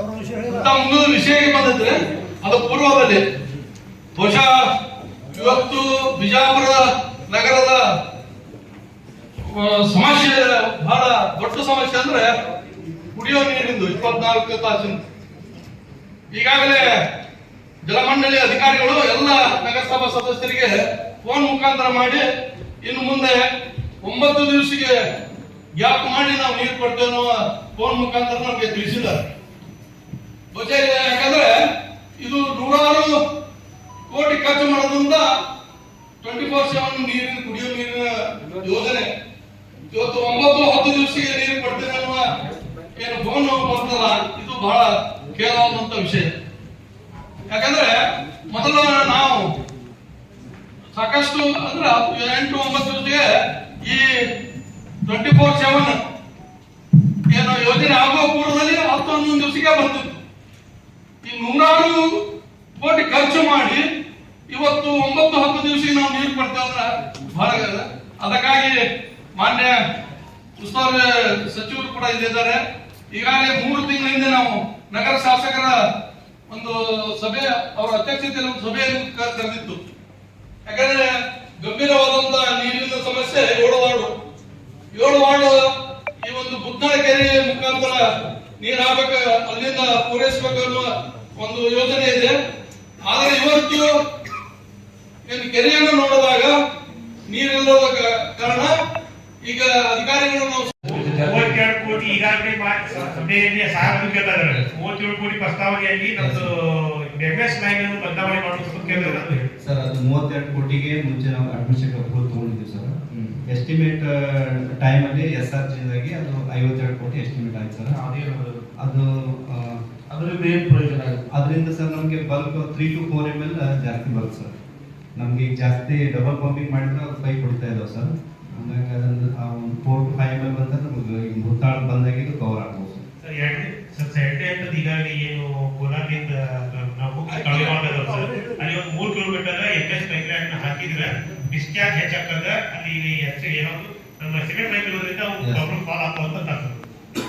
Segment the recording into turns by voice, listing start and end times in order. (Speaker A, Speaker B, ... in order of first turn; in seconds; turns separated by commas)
Speaker A: 0.4-3.2, Speaker A: 4.2-4.6, Speaker A: 5.3-7.8, Speaker A: 9.5-12.3, Speaker A: 13.1-15.0, Speaker A: 16.3-17.0, Speaker A: 17.8-22.2, Speaker A: 22.8-23.4, Speaker A: 24.0-24.9, Speaker A: 25.8-29.3, Speaker A: 30.5-31.6, Speaker A: 32.2-33.2, Speaker A: 34.1-35.3, Speaker A: 36.2-39.1, Speaker A: 39.9-42.2, Speaker A: 43.0-46.3, Speaker A: 47.5-48.0, Speaker A: 48.5-49.5, Speaker A: 50.9-54.1, Speaker A: 55.1-56.0, Speaker A: 57.3-60.2, Speaker A: 61.2-62.2, Speaker A: 62.8-63.8, Speaker A: 64.5-68.8, Speaker A: 69.3-69.8, Speaker A: 70.6-72.6, Speaker A: 73.1-75.7, Speaker A: 76.5-79.8, Speaker A: 80.7-84.1, Speaker A: 85.0-85.6, Speaker A: 86.2-88.0, Speaker A: 88.6-92.3, Speaker A: 93.0-94.0, Speaker A: 95.3-96.5, Speaker A: 97.3-98.7, Speaker A: 99.5-101.0, Speaker B: 101.0-101.4, Speaker C: 101.2-109.5, Speaker D: 106.2-106.5, Speaker D: 108.8-118.0, Speaker B: 117.9-118.6, Speaker D: 118.8-119.8, Speaker B: 120.1-121.2, Speaker D: 121.3-124.5, Speaker D: 125.2-133.0, Speaker C: 133.2-146.8, Speaker A: 137.4-137.8